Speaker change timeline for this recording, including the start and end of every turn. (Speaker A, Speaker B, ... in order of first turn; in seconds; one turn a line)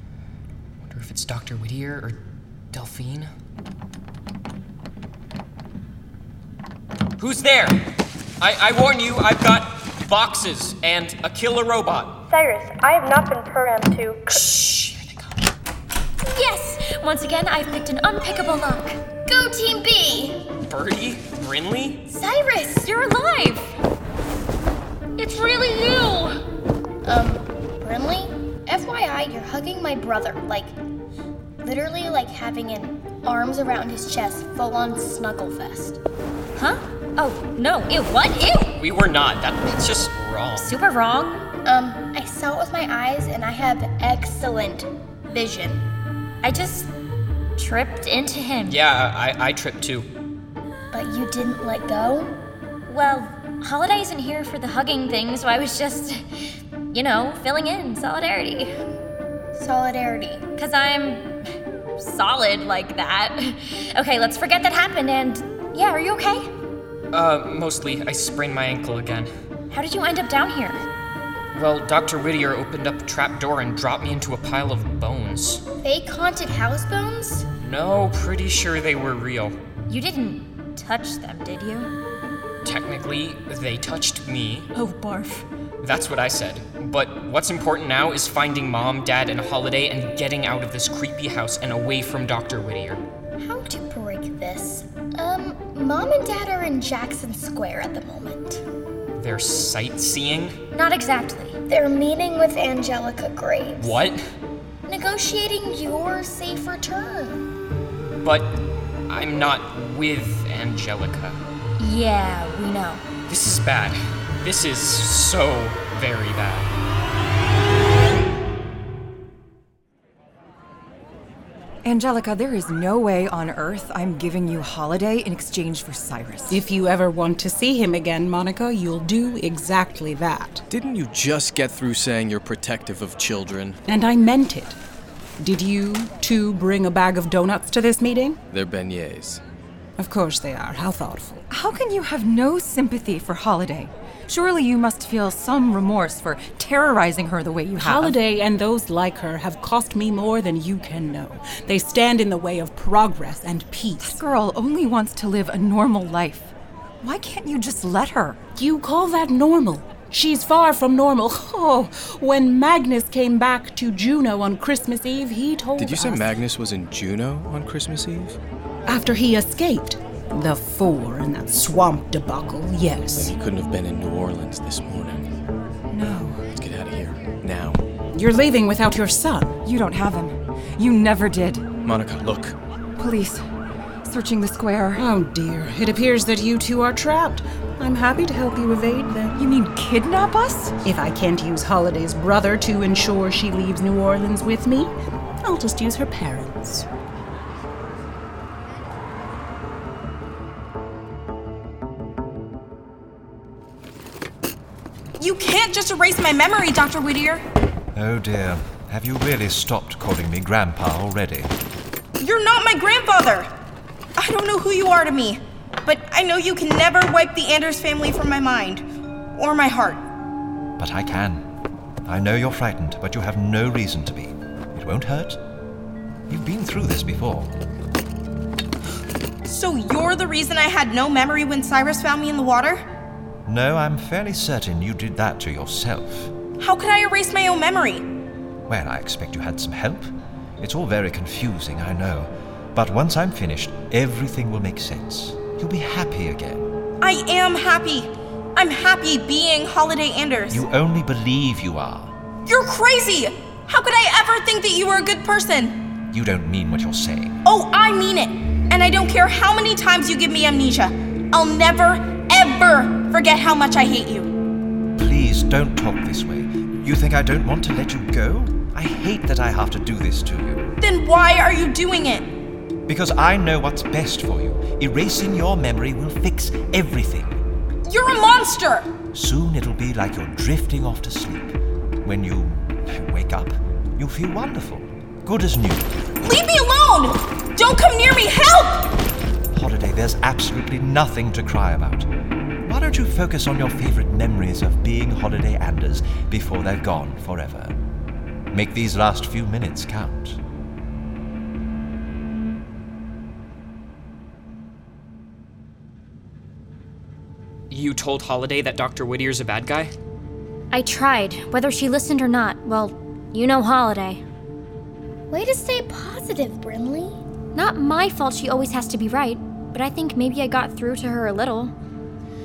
Speaker A: 0.8-2.2
Speaker A: 2.7-3.3
Speaker A: 7.2-7.8
Speaker A: 8.4-12.2
Speaker B: 12.3-14.2
Speaker C: 16.3-19.0
Speaker D: 19.3-20.5
Speaker A: 20.7-22.1
Speaker D: 22.1-22.9
Speaker C: 22.8-23.8
Speaker C: 25.2-26.3
Speaker D: 27.0-30.7
Speaker D: 31.6-36.0
Speaker C: 36.5-38.8
Speaker A: 38.8-40.8
Speaker C: 40.6-41.5
Speaker D: 41.6-45.8
Speaker C: 46.4-46.9
Speaker C: 47.6-48.7
Speaker A: 48.6-50.1
Speaker D: 50.9-52.3
Speaker C: 52.9-56.2
Speaker C: 56.9-58.7
Speaker D: 59.6-60.5
Speaker C: 60.5-61.3
Speaker C: 62.0-66.5
Speaker A: 67.1-69.3
Speaker C: 69.7-70.8
Speaker A: 71.5-75.6
Speaker D: 75.8-77.5
Speaker A: 77.6-79.6
Speaker C: 79.9-81.9
Speaker A: 82.6-84.7
Speaker E: 84.8-85.4
Speaker A: 85.8-93.0
Speaker D: 93.4-98.6
Speaker A: 99.2-100.6
Speaker C: 100.7-101.6
Speaker D: 101.7-104.0
Speaker A: 103.8-104.2
Speaker D: 104.9-107.5
Speaker A: 108.2-111.4
Speaker C: 111.8-113.0
Speaker A: 113.3-116.7
Speaker F: 121.8-126.6
Speaker E: 126.5-130.6
Speaker G: 130.7-133.8
Speaker E: 133.9-134.8
Speaker E: 135.4-138.4
Speaker G: 138.5-139.4
Speaker E: 140.0-141.4
Speaker F: 141.5-148.2
Speaker E: 147.8-154.2
Speaker F: 154.0-158.4
Speaker E: 158.6-166.4
Speaker G: 165.8-168.4
Speaker E: 168.9-173.3
Speaker G: 173.1-175.3
Speaker F: 175.9-176.4
Speaker G: 176.5-177.8
Speaker E: 178.1-179.6
Speaker F: 179.6-181.7
Speaker G: 181.8-182.6
Speaker F: 183.0-183.4
Speaker F: 184.0-185.1
Speaker E: 185.0-189.5
Speaker F: 189.3-190.8
Speaker E: 190.8-196.8
Speaker H: 205.2-207.4
Speaker I: 207.9-211.5
Speaker H: 212.2-213.5
Speaker H: 214.2-218.8
Speaker H: 219.4-220.0
Speaker I: 220.8-221.4
Speaker I: 222.1-225.4
Speaker I: 226.3-227.6
Speaker H: 229.5-232.8
Speaker I: 233.5-236.3
Speaker H: 236.6-238.1
Speaker I: 238.7-240.1
Speaker I: 240.6-246.7
Speaker H: 247.0-250.6
Speaker I: 250.5-252.1
Speaker H: 252.4-255.8
Speaker I: 256.1-257.4
Speaker H: 257.4-264.3
Speaker I: 265.0-270.7
Speaker H: 270.8-272.3
Speaker I: 272.9-277.4
Speaker H: 277.9-278.9
Speaker I: 279.1-285.9
Speaker H: 286.2-288.9
Speaker I: 289.5-292.1
Speaker I: 292.7-297.8
Speaker I: 298.5-300.4
Speaker A: 307.7-309.9
Speaker C: 310.7-314.2
Speaker D: 315.3-317.2
Speaker C: 317.5-321.7